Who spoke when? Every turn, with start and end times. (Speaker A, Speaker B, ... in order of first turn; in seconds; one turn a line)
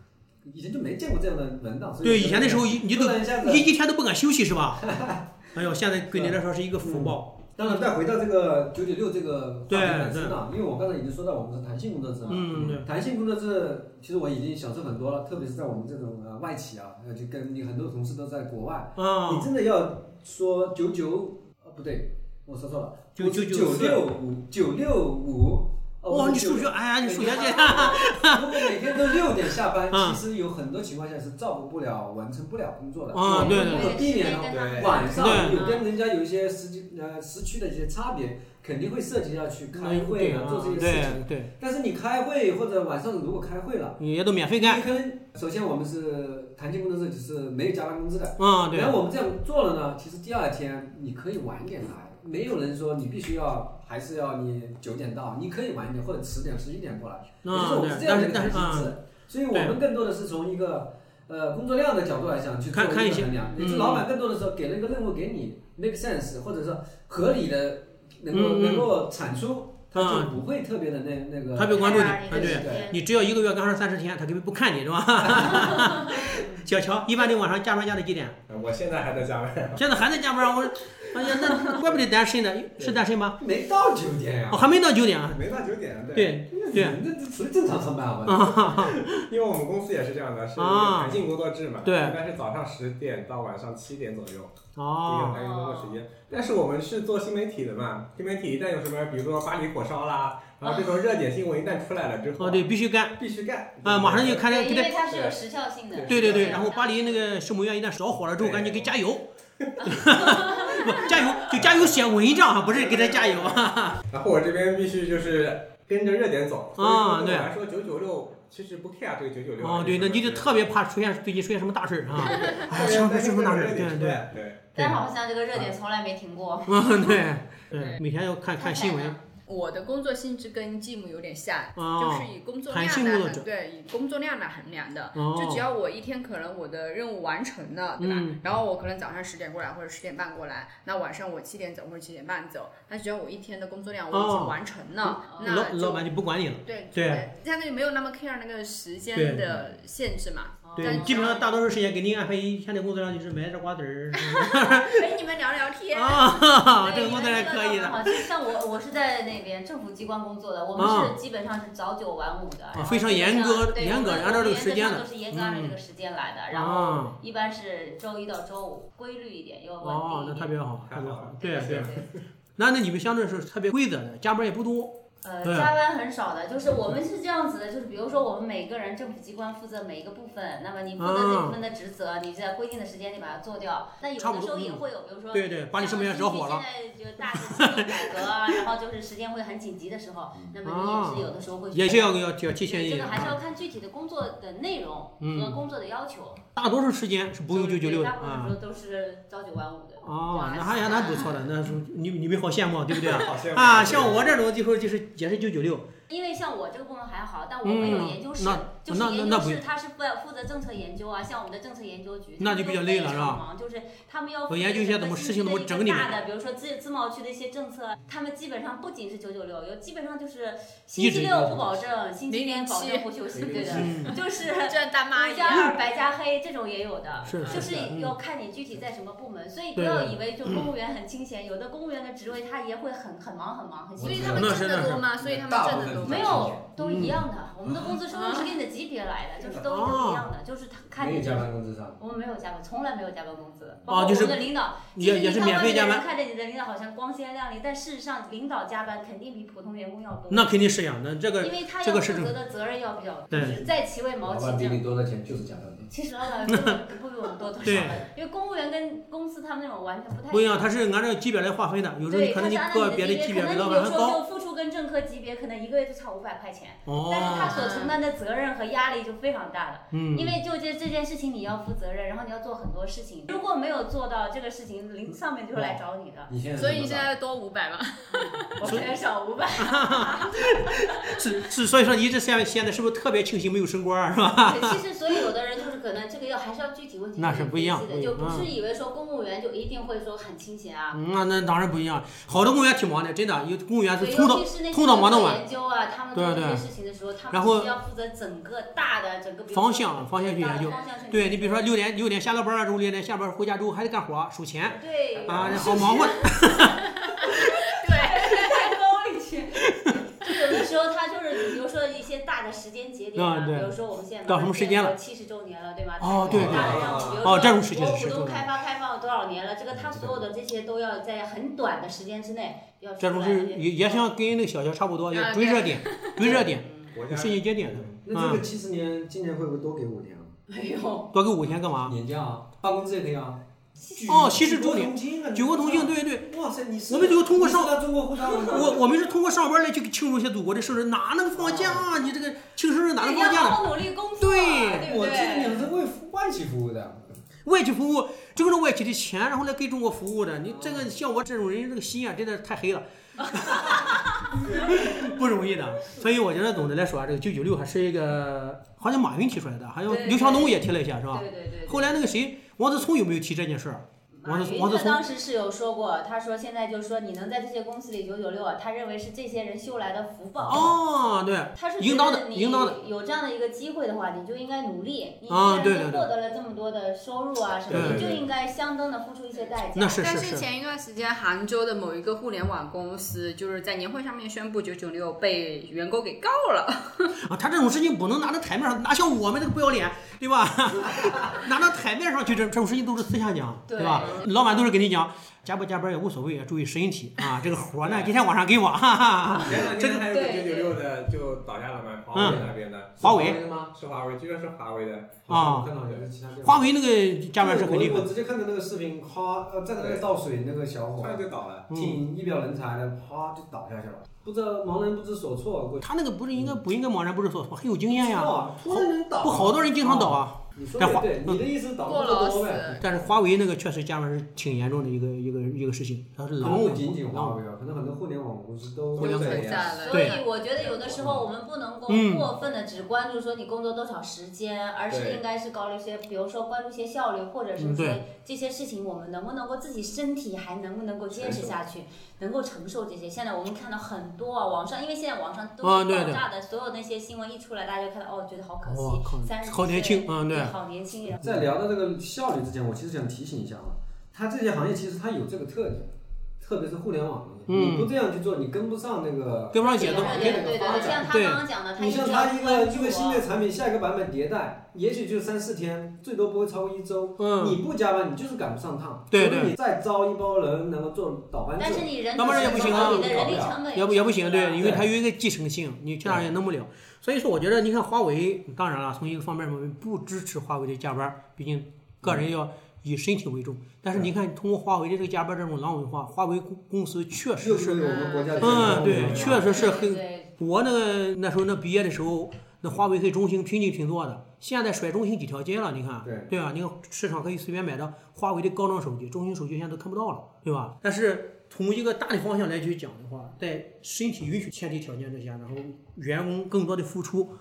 Speaker A: 0.5-3.7
Speaker B: 2.0-4.9
Speaker A: 4.8-5.5
Speaker B: 5.5-7.3
Speaker A: 6.1-44.0
Speaker B: 9.7-10.4
Speaker B: 12.3-12.9
Speaker B: 19.0-19.5
Speaker B: 23.2-24.0
Speaker B: 26.1-29.2
Speaker B: 29.9-30.2
Speaker B: 33.1-34.0
Speaker C: 33.3-35.8
Speaker D: 34.3-35.1
Speaker B: 35.1-35.7
Speaker B: 39.7-41.5
Speaker B: 44.0-44.8
Speaker A: 44.6-72.9
Speaker B: 48.4-49.0
Speaker B: 57.4-59.0
Speaker B: 59.5-59.8
Speaker B: 62.7-64.1
Speaker B: 68.3-69.0
Speaker B: 70.0-70.3
Speaker B: 71.5-78.4
Speaker C: 71.8-73.0
Speaker A: 75.2-75.5
Speaker D: 78.5-79.8
Speaker B: 79.8-83.4
Speaker A: 82.8-84.7
Speaker B: 84.5-85.5
Speaker D: 85.3-86.4
Speaker B: 86.1-87.0
Speaker A: 86.5-89.1
Speaker B: 88.3-89.0
Speaker D: 89.1-104.5
Speaker B: 90.6-91.2
Speaker B: 91.8-92.2
Speaker B: 94.8-95.4
Speaker C: 95.4-96.0
Speaker C: 100.6-101.0
Speaker B: 102.4-103.2
Speaker B: 103.8-105.0
Speaker C: 104.5-107.3
Speaker D: 105.0-105.4
Speaker D: 105.9-106.7
Speaker B: 106.1-109.3
Speaker D: 108.3-109.0
Speaker D: 109.6-109.9
Speaker B: 109.8-114.0
Speaker C: 109.9-111.4
Speaker D: 111.4-120.5
Speaker B: 116.8-117.5
Speaker B: 119.6-125.0
Speaker D: 122.2-124.7
Speaker E: 122.3-122.7
Speaker C: 124.8-127.2
Speaker B: 126.7-129.2
Speaker C: 128.6-129.2
Speaker E: 129.5-146.0
Speaker B: 131.8-133.5
Speaker B: 135.2-135.6
Speaker B: 138.0-138.4
Speaker B: 144.1-144.6
Speaker C: 145.3-145.7
Speaker B: 145.3-147.3
Speaker E: 146.7-151.4
Speaker B: 149.2-149.6
Speaker C: 150.7-151.4
Speaker B: 150.8-155.0
Speaker E: 154.5-156.3
Speaker B: 155.9-158.3
Speaker C: 156.8-170.6
Speaker B: 160.8-161.2
Speaker B: 162.7-165.8
Speaker B: 166.5-167.2
Speaker B: 169.8-171.9
Speaker D: 170.9-172.1
Speaker C: 171.4-172.1
Speaker B: 172.6-175.7
Speaker C: 175.2-196.4
Speaker B: 181.0-181.6
Speaker B: 184.2-186.6
Speaker B: 187.3-187.9
Speaker B: 190.6-193.4
Speaker B: 195.2-195.6
Speaker B: 196.6-198.5
Speaker C: 197.5-201.4
Speaker B: 200.0-205.9
Speaker D: 203.0-204.4
Speaker C: 206.1-234.9
Speaker B: 207.6-209.6
Speaker B: 212.4-213.4
Speaker B: 214.5-216.2
Speaker B: 221.0-221.8
Speaker E: 222.3-225.8
Speaker A: 223.5-223.9
Speaker D: 223.6-223.9
Speaker B: 223.7-224.2
Speaker B: 227.3-228.2
Speaker B: 229.8-230.7
Speaker A: 234.0-234.5
Speaker E: 234.1-236.6
Speaker B: 234.3-235.0
Speaker A: 235.2-236.7
Speaker C: 236.0-250.6
Speaker B: 236.8-237.2
Speaker E: 238.1-238.5
Speaker A: 239.4-239.6
Speaker B: 239.7-240.3
Speaker A: 241.0-242.0
Speaker B: 243.9-246.0
Speaker B: 250.3-252.3
Speaker C: 251.4-254.8
Speaker B: 253.3-253.6
Speaker A: 253.3-253.7
Speaker A: 254.2-255.9
Speaker C: 255.9-260.7
Speaker B: 257.6-258.0
Speaker B: 260.3-264.2
Speaker C: 262.1-276.3
Speaker B: 266.9-267.6
Speaker E: 267.4-267.7
Speaker B: 269.9-270.4
Speaker A: 276.3-277.1
Speaker E: 276.6-278.6
Speaker C: 278.1-281.3
Speaker B: 279.6-284.8
Speaker C: 284.4-291.0
Speaker B: 287.2-288.5
Speaker B: 290.9-295.4
Speaker C: 294.0-301.7
Speaker B: 296.1-296.6
Speaker B: 297.3-297.7
Speaker B: 299.5-306.9
Speaker D: 304.6-306.2
Speaker C: 304.8-324.1
Speaker E: 305.6-306.0
Speaker E: 306.7-307.3
Speaker E: 307.8-308.7
Speaker B: 313.2-314.9
Speaker B: 316.0-318.5
Speaker D: 316.3-317.3
Speaker D: 319.7-320.2
Speaker B: 323.0-328.4
Speaker E: 325.1-326.9
Speaker A: 326.2-326.5
Speaker D: 326.9-327.9
Speaker A: 328.1-330.3
Speaker C: 330.5-331.1
Speaker B: 331.1-331.9
Speaker A: 331.8-338.9
Speaker B: 334.1-336.3
Speaker B: 336.9-337.8
Speaker B: 338.5-343.6
Speaker A: 341.4-341.8
Speaker C: 343.0-345.7
Speaker B: 344.2-344.9
Speaker A: 344.8-347.1
Speaker B: 347.4-365.0
Speaker A: 350.4-350.9
Speaker C: 359.9-362.0
Speaker C: 364.2-370.8
Speaker B: 370.5-372.8
Speaker C: 371.6-380.1
Speaker B: 375.3-376.1
Speaker D: 377.7-378.3
Speaker B: 377.7-378.1
Speaker B: 379.8-380.5
Speaker E: 380.0-387.2
Speaker B: 387.2-400.1
Speaker C: 393.7-394.3
Speaker D: 397.8-398.1
Speaker D: 399.4-403.1
Speaker A: 399.4-400.0
Speaker C: 400.1-400.8
Speaker B: 402.1-402.4
Speaker A: 402.1-403.7
Speaker B: 403.0-403.4
Speaker D: 403.7-405.3
Speaker A: 405.3-406.7
Speaker B: 405.3-405.7
Speaker B: 406.4-408.1
Speaker A: 407.4-416.6
Speaker D: 409.8-410.0
Speaker D: 411.0-411.7
Speaker B: 411.7-412.0
Speaker B: 415.8-421.4
Speaker A: 417.9-422.8
Speaker E: 421.9-422.8
Speaker B: 422.8-427.4
Speaker A: 426.4-429.7
Speaker D: 428.9-429.6
Speaker B: 429.0-430.2
Speaker E: 429.0-430.2
Speaker C: 429.7-451.4
Speaker A: 430.8-431.2
Speaker B: 431.9-432.3
Speaker D: 434.9-435.2
Speaker B: 437.6-438.0
Speaker D: 441.2-441.5
Speaker B: 445.6-446.2
Speaker B: 448.6-450.5
Speaker A: 451.2-455.9
Speaker A: 456.4-461.1
Speaker B: 457.5-457.9
Speaker B: 459.5-461.4
Speaker C: 459.6-463.3
Speaker A: 461.8-473.6
Speaker B: 467.2-467.6
Speaker B: 469.1-469.5
Speaker C: 471.6-474.7
Speaker B: 472.2-507.3
Speaker A: 474.6-474.9
Speaker A: 482.0-482.3
Speaker A: 487.4-489.6
Speaker D: 488.4-489.4
Speaker C: 489.3-490.3
Speaker A: 496.0-496.3